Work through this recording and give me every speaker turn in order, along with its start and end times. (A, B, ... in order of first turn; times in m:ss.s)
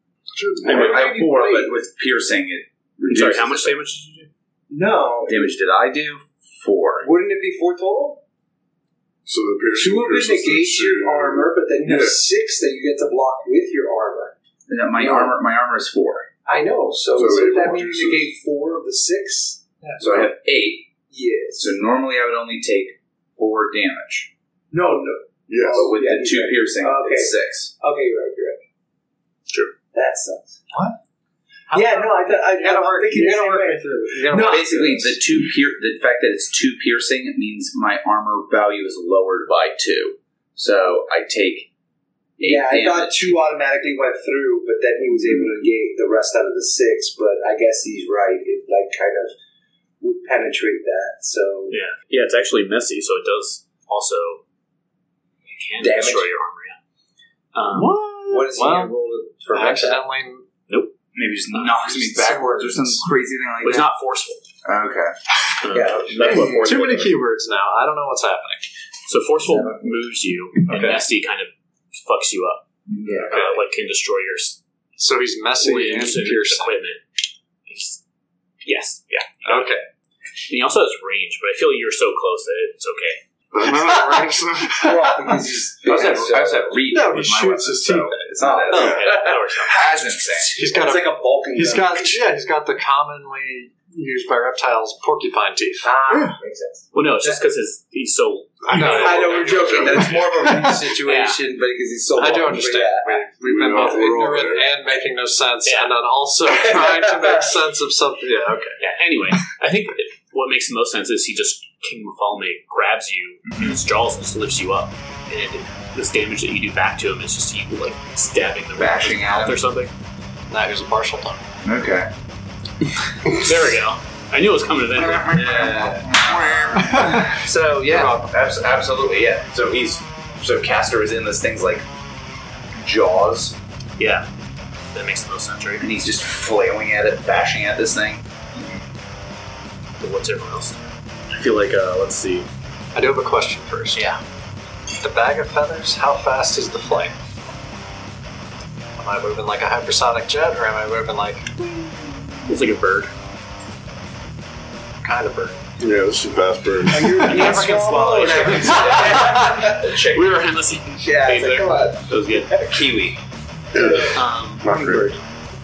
0:00.3-0:01.1 A
0:00.6-0:03.8 B
0:00.6-0:01.7 C
0:03.1-0:04.3 D
0:04.7-0:05.5 C
0:05.2-0:07.1 B
0:07.0-0:08.2 C
0:09.2-0:12.2 A
0:09.7-0:14.3 C
0:14.7-0:16.3 B
0:15.0-0:15.4 C
0:16.5-0:20.3 C
0:17.1-0:18.3 A
0:20.0-0:20.9 B
0:21.1-0:21.8 C
0:21.6-0:24.3 B
0:24.7-0:28.6 C
0:25.5-0:25.9 A
0:25.7-0:27.7 B
0:29.9-0:30.6 C
0:31.7-0:35.1 E
0:31.7-0:35.1 C
0:34.4-0:41.7 B
0:42.4-0:43.4 B
0:42.4-0:49.4 C
0:50.0-0:51.8 C
0:51.7-0:54.4 D
0:55.5-0:56.8 D
0:55.8-0:56.3 C
0:57.5-0:57.9 D
0:57.7-0:59.0 E
0:58.3-1:00.0 C
0:59.5-1:00.4 E
1:00.7-1:00.9 D
1:01.1-1:03.9 B
1:01.5-1:01.9 D
1:02.0-1:03.0 E
1:02.2-1:02.8 C
1:03.6-1:04.4 D
1:04.6-1:05.2 B
1:05.6-1:07.2 D
1:05.7-1:06.7 C
1:06.3-1:08.7 E
1:09.1-1:12.6 D
1:09.5-1:09.7 C
1:10.7-1:11.0 E
1:12.9-1:13.4 B
1:13.0-1:13.3 C
1:13.3-1:14.6 D
1:15.0-1:16.8 E
1:15.6-1:17.0 D
1:17.7-1:18.0 D
1:18.6-1:19.7 D
1:19.4-1:19.9 E
1:20.5-1:23.2 D
1:23.5-1:25.1 A
1:24.0-1:24.3 E
1:24.7-1:26.8 C
1:25.3-1:30.6 B
1:26.9-1:28.6 E
1:28.4-1:29.4 C
1:28.7-1:30.0 D
1:30.5-1:35.9 E
1:30.6-1:32.2 C
1:35.8-1:37.4 C
1:36.1-1:36.4 A
1:36.9-1:40.1 D
1:38.6-1:40.7 A
1:38.8-1:43.2 C
1:41.0-1:41.4 D
1:42.2-1:48.8 E
1:43.4-1:44.7 A
1:45.6-1:45.9 D
1:46.5-1:47.5 C
1:48.8-1:59.9 D
1:53.4-1:53.8 B
1:58.8-1:59.6 B
2:00.5-2:01.4 E
2:01.6-2:02.1 B
2:03.4-2:06.1 D
2:05.0-2:11.9 B
2:05.5-2:06.1 E
2:06.2-2:07.2 A
2:06.7-2:07.4 E
2:12.8-2:13.6 B
2:14.0-2:14.3 D
2:14.9-2:15.9 D
2:15.8-2:18.8 B
2:20.0-2:22.5 D
2:22.9-2:24.1 E
2:23.9-2:24.2 D
2:25.0-2:27.1 E
2:29.0-2:31.5 E
2:32.5-2:33.1 D
2:35.0-2:35.7 E
2:35.8-2:37.4 A
2:36.9-2:39.8 C
2:36.9-2:37.6 E
2:37.2-2:42.5 D
2:38.3-2:40.4 B
2:40.9-2:42.8 C
2:42.6-2:43.2 B
2:43.7-2:45.1 A
2:43.8-2:45.2 C
2:44.1-2:44.7 D